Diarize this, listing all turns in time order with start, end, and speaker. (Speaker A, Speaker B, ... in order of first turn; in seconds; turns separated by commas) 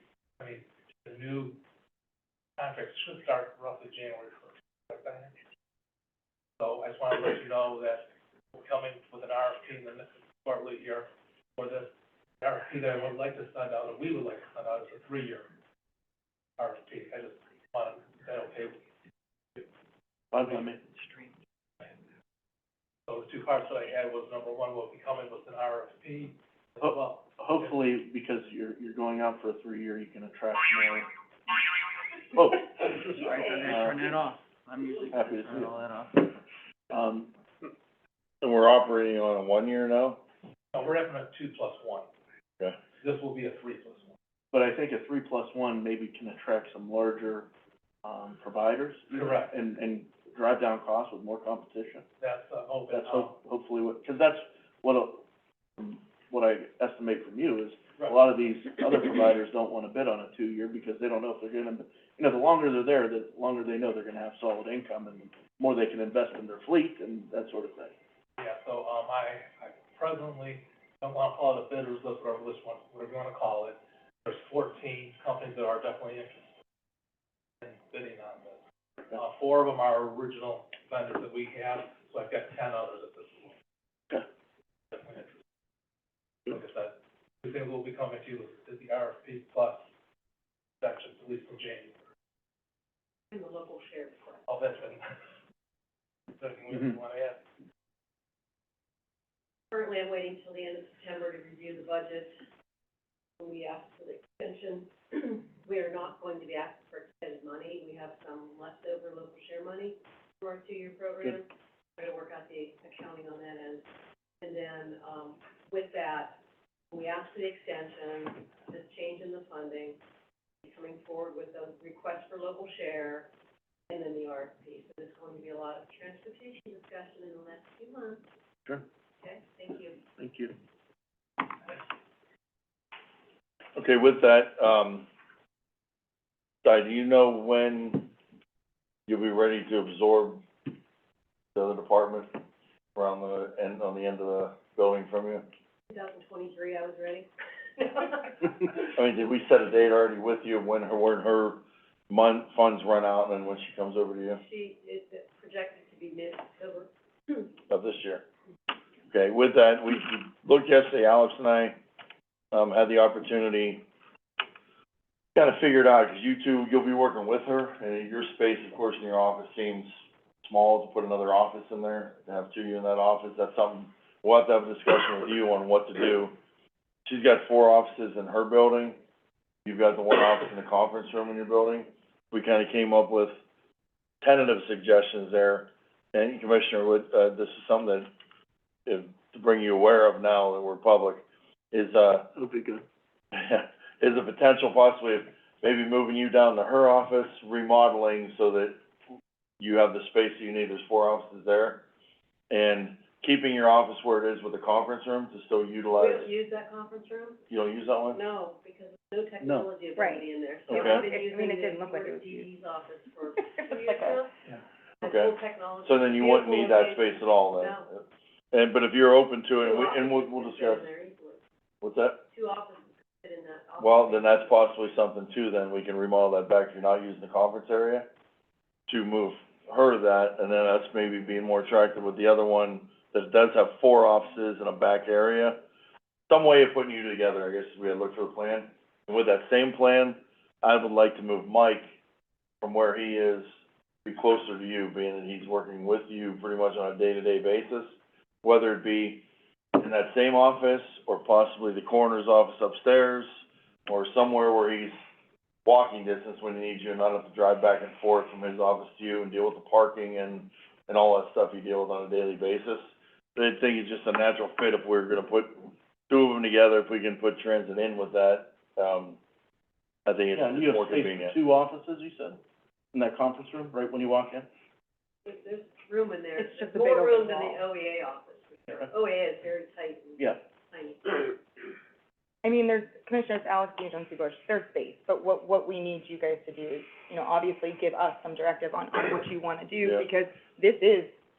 Speaker A: 0.4-1.6, Speaker A: 2.6-5.3, Speaker A: 6.6-15.5, Speaker A: 16.6-18.8, Speaker B: 20.3-20.8, Speaker C: 21.0-21.3, Speaker A: 23.1-27.7, Speaker B: 26.8-31.1, Speaker B: 32.3-34.2, Speaker C: 33.1-36.3, Speaker B: 35.1-36.3, Speaker B: 36.9-37.3, Speaker D: 38.4-40.2, Speaker A: 40.7-42.1, Speaker A: 43.0-44.1, Speaker B: 44.5-47.5, Speaker B: 48.0-52.0, Speaker A: 49.1-49.5, Speaker A: 52.2-53.3, Speaker B: 52.9-55.2, Speaker B: 55.8-67.9, Speaker A: 68.4-76.5, Speaker A: 77.6-78.6, Speaker A: 79.1-83.5, Speaker A: 84.9-85.3, Speaker A: 86.5-89.8, Speaker A: 90.8-91.9, Speaker E: 93.3-94.4, Speaker A: 94.5-95.2, Speaker A: 96.3-97.4, Speaker E: 99.7-102.4, Speaker E: 103.4-113.8, Speaker E: 114.4-120.0, Speaker E: 120.6-123.3, Speaker E: 123.9-128.2, Speaker E: 129.2-130.0, Speaker B: 130.2-130.5, Speaker D: 133.8-135.1, Speaker D: 136.6-138.1, Speaker D: 139.1-140.4, Speaker D: 141.5-142.3, Speaker D: 142.9-145.4, Speaker E: 145.9-148.5, Speaker D: 148.8-154.4, Speaker E: 154.4-157.5, Speaker D: 157.7-158.2, Speaker D: 159.1-161.8, Speaker D: 162.5-163.8, Speaker D: 165.3-169.9, Speaker D: 170.4-176.3, Speaker D: 177.1-179.0, Speaker D: 179.6-183.3, Speaker D: 184.2-188.1, Speaker D: 188.8-192.3, Speaker B: 192.3-192.8, Speaker D: 193.3-198.8, Speaker D: 199.6-201.8, Speaker D: 202.5-206.3, Speaker E: 206.0-207.4, Speaker D: 207.5-208.2, Speaker E: 208.1-214.3, Speaker B: 209.4-209.7, Speaker F: 209.9-212.5, Speaker D: 210.7-211.1, Speaker F: 213.4-214.2, Speaker E: 215.0-217.9, Speaker D: 215.0-215.3, Speaker D: 215.8-220.9, Speaker E: 219.6-221.4, Speaker D: 221.8-222.2, Speaker E: 222.3-224.7, Speaker D: 223.8-228.1, Speaker D: 228.9-235.6, Speaker D: 236.3-241.9, Speaker D: 242.6-243.5, Speaker D: 244.0-249.2, Speaker D: 249.8-253.3, Speaker D: 253.9-255.0, Speaker D: 255.6-269.2, Speaker D: 270.1-271.3, Speaker B: 270.3-272.4, Speaker B: 272.9-274.5, Speaker E: 275.2-281.4, Speaker F: 276.4-277.6, Speaker F: 282.4-291.1